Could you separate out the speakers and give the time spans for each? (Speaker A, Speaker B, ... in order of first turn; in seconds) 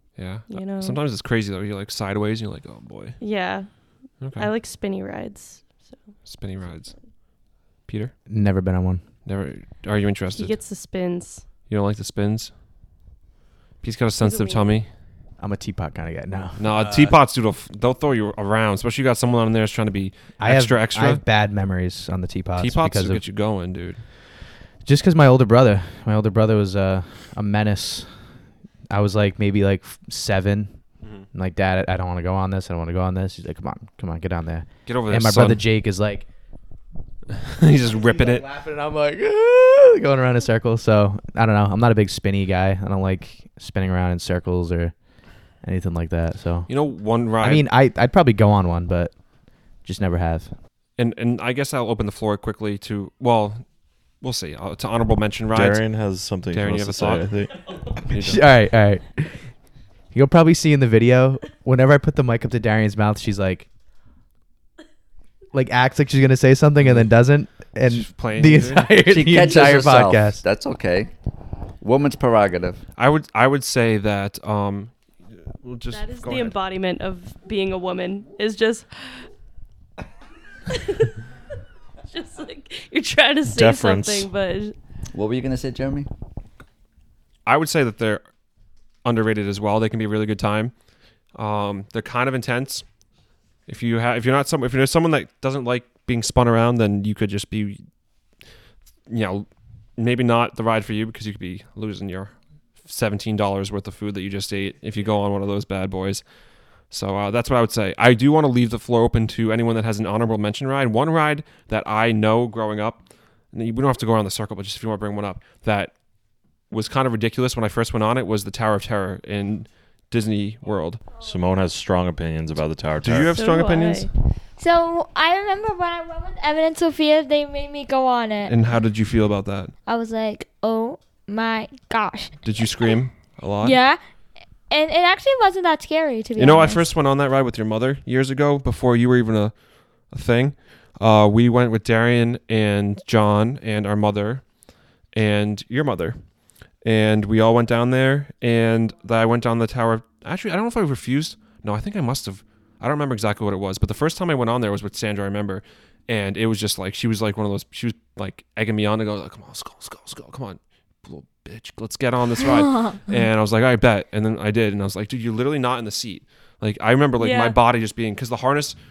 Speaker A: 0.2-3.2, 4.2-4.5, 6.2-8.2, 9.2-10.6, 11.7-12.6, 13.8-14.9, 16.6-21.2, 22.6-24.0, 31.0-31.3, 34.9-35.6, 37.3-38.5, 46.7-47.7, 51.0-58.6, 66.8-68.9, 73.0-76.6, 87.5-88.2, 89.0-90.8, 91.3-92.9, 93.7-97.8, 99.1-116.1, 116.6-121.0, 123.0-124.1, 128.5-129.7, 132.4-133.8, 136.4-168.8
Speaker B: 0.5-1.0, 3.2-6.2, 10.3-11.5, 14.2-14.8, 75.9-78.9, 80.7-81.1, 82.1-84.8, 123.3-124.1, 167.2-167.6
Speaker C: 8.3-9.0, 15.4-17.2, 20.4-23.2, 24.8-28.1, 28.9-36.3, 37.9-46.7, 47.4-50.5, 58.1-59.5, 60.1-63.7, 65.5-70.4
Speaker D: 55.5-57.8, 83.5-84.3, 121.2-123.3
Speaker E: 69.1-71.1, 71.8-72.8, 85.1-86.1
Speaker F: 124.6-128.6, 129.9-132.9, 133.6-134.0, 134.7-136.9, 162.6-163.0